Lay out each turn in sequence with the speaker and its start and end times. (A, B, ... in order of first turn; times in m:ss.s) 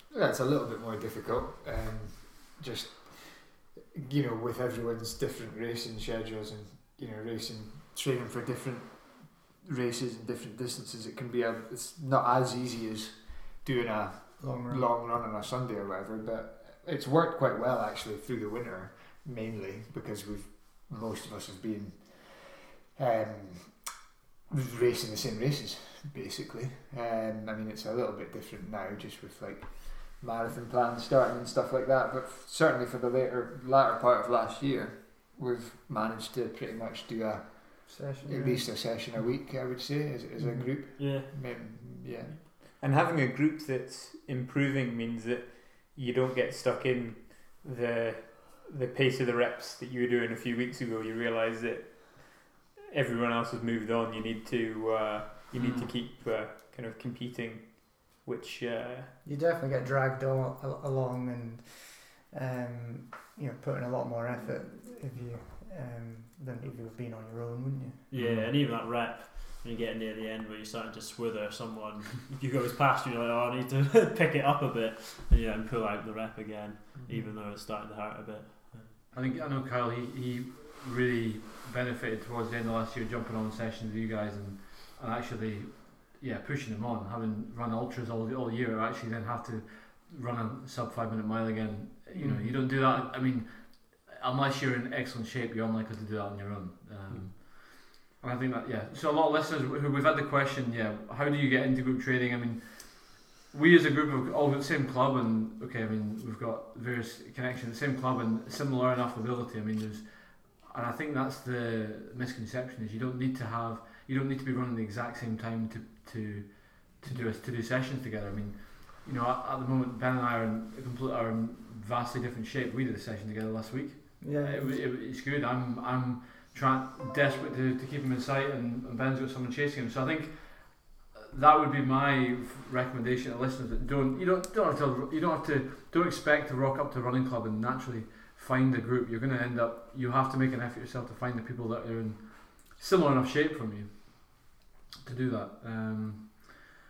0:00.1-0:42.6 A
0:14.4-0:14.9 B
0:37.9-0:38.9 B
0:40.4-0:40.8 B
0:41.0-0:41.6 C
0:42.8-0:59.1 D
0:55.5-0:55.9 E
0:59.2-1:08.0 B
1:08.1-1:18.9 C
1:08.1-1:08.5 E
1:19.1-2:26.7 E
2:04.2-2:04.8 B